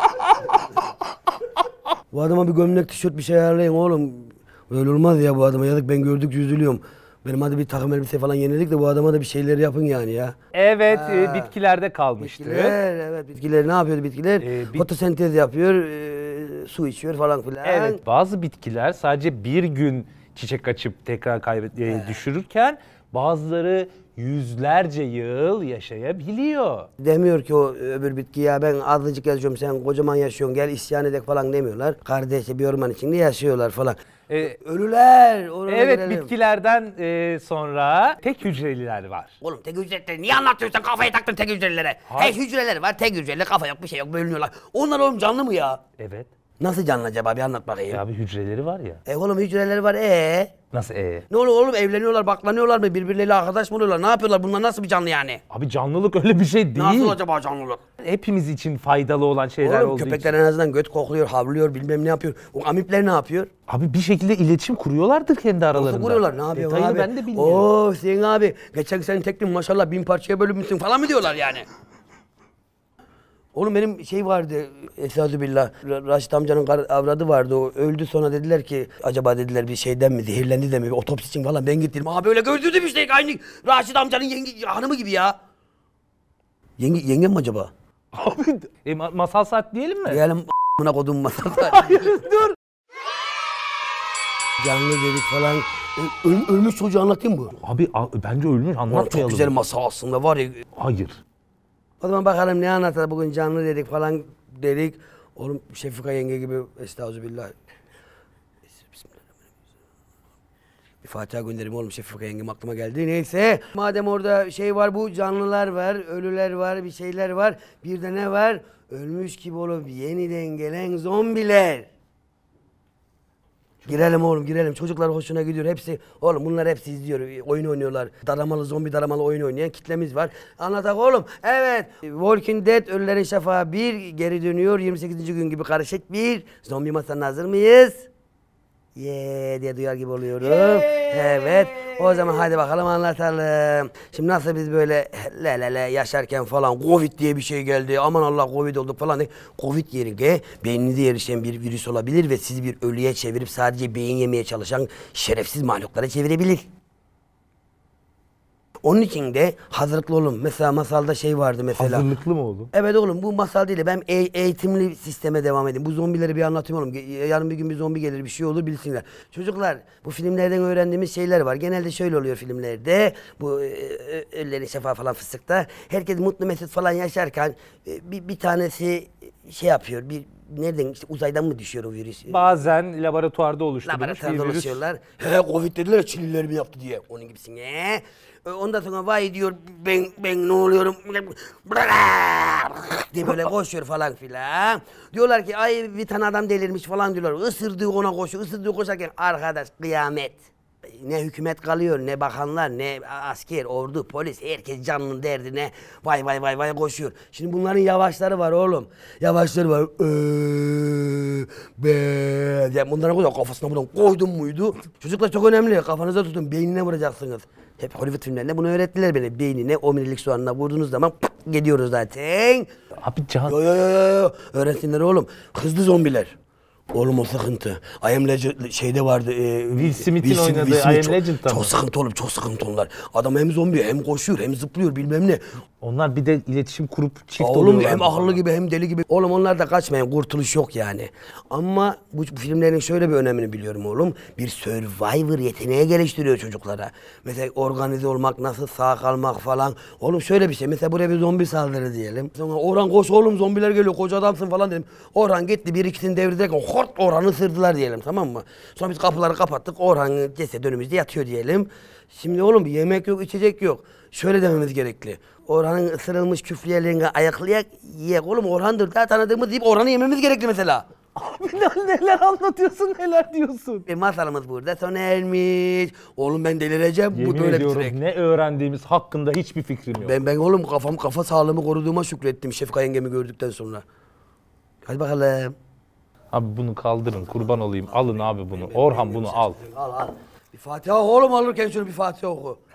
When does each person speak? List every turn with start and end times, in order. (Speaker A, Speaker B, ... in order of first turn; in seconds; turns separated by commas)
Speaker A: 2.1-10.3, Speaker B: 10.5-12.8, Speaker A: 10.9-11.5, Speaker A: 12.2-18.0, Speaker B: 14.4-14.9, Speaker B: 17.6-26.9, Speaker A: 21.9-22.2, Speaker A: 27.0-36.3, Speaker B: 34.3-34.6, Speaker B: 35.7-39.3, Speaker A: 39.4-45.8, Speaker B: 42.1-42.4, Speaker B: 46.0-46.3, Speaker A: 46.6-48.0, Speaker B: 47.9-49.0, Speaker A: 49.1-50.5, Speaker B: 50.7-51.3, Speaker A: 51.3-55.4, Speaker B: 55.5-57.2, Speaker A: 56.8-57.8, Speaker B: 58.0-60.3, Speaker A: 59.6-63.5, Speaker B: 63.7-67.7, Speaker A: 65.7-71.7, Speaker A: 73.5-85.3, Speaker A: 86.8-87.7, Speaker B: 88.1-90.2, Speaker A: 90.1-92.2, Speaker B: 91.5-92.5, Speaker A: 94.6-97.6, Speaker B: 97.6-99.5, Speaker A: 98.9-100.6, Speaker B: 100.8-101.2, Speaker A: 102.0-107.5, Speaker A: 108.8-109.2, Speaker A: 111.0-121.9, Speaker A: 123.8-138.1, Speaker A: 138.9-156.6, Speaker B: 140.4-142.4, Speaker A: 158.8-162.1, Speaker B: 161.8-162.7, Speaker A: 162.7-182.6, Speaker B: 182.3-184.8, Speaker A: 183.9-200.4, Speaker A: 200.9-222.7, Speaker B: 223.0-223.6, Speaker A: 223.5-226.3, Speaker A: 226.9-235.4, Speaker B: 229.7-231.7, Speaker B: 235.8-238.4, Speaker A: 237.4-270.9, Speaker B: 271.1-273.9, Speaker A: 273.9-277.9, Speaker B: 277.1-280.2, Speaker A: 280.0-283.8, Speaker A: 284.9-285.6, Speaker B: 286.3-289.6, Speaker A: 287.2-292.6